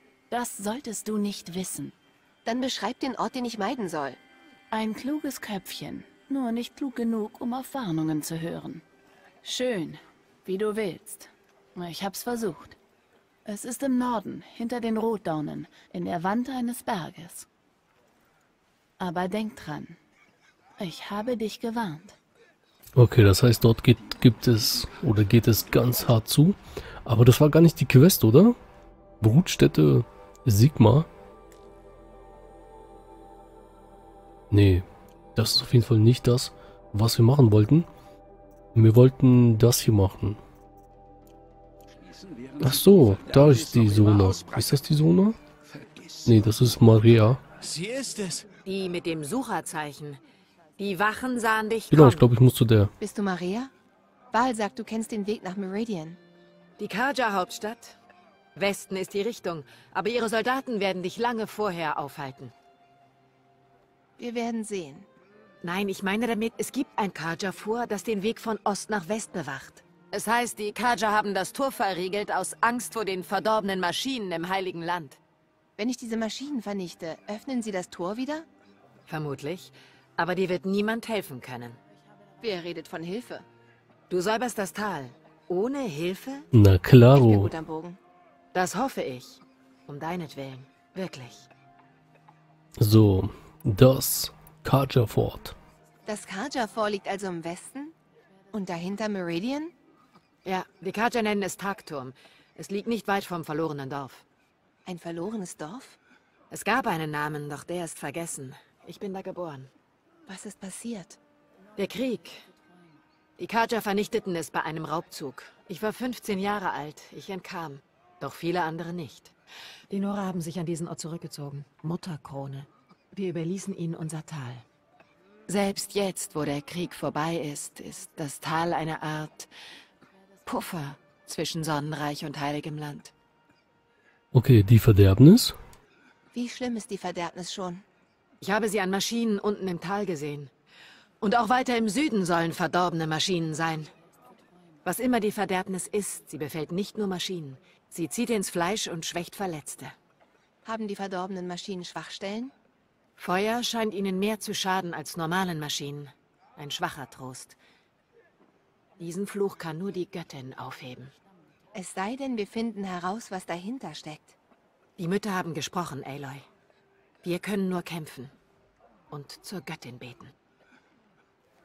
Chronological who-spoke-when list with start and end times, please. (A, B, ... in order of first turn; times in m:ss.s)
0:00.3-0:01.9 A
0:02.4-0:04.2 B
0:04.7-0:08.8 A
0:09.4-0:12.8 A
0:13.4-0:17.5 A
0:19.0-0:20.0 A
0:20.8-0:22.2 A
0:22.9-0:28.6 C
0:29.2-0:31.1 C
0:34.5-0:37.9 C
0:38.7-0:40.4 C
0:41.9-0:44.8 D
0:42.6-0:45.4 C
0:45.7-0:46.4 D
0:46.2-0:47.4 C
0:47.6-0:48.4 D
0:48.6-0:50.2 E
0:50.8-0:52.2 E
0:51.9-0:52.9 C
0:53.0-0:53.7 B
0:54.3-0:56.2 B
0:56.8-0:58.0 E
0:58.6-1:02.5 E
1:04.2-1:05.1 B
1:05.6-1:15.2 E
1:15.8-1:18.5 B
1:19.1-1:21.8 E
1:22.4-1:23.4 B
1:24.1-1:26.5 E
1:26.5-1:27.5 C
1:27.1-1:28.0 B
1:28.5-1:31.5 E
1:32.8-1:35.6 C
1:36.0-1:37.9 B
1:38.5-1:39.7 B
1:40.4-1:44.2 E
1:44.8-1:46.0 B
1:46.5-1:49.7 E
1:50.3-1:51.2 B
1:51.8-1:52.5 E
1:53.4-1:59.3 E
1:59.9-2:04.6 E
2:05.5-2:09.5 E
2:10.4-2:13.1 E
2:14.3-2:15.6 C
2:16.3-2:17.8 B
2:18.4-2:20.5 E
2:21.2-2:23.9 E
2:24.8-2:29.9 E
2:30.6-2:32.5 B
2:33.2-2:37.6 E
2:39.0-2:41.1 E
2:41.7-2:44.4 B
2:45.0-2:46.5 E
2:47.2-2:48.3 E
2:49.1-2:50.3 E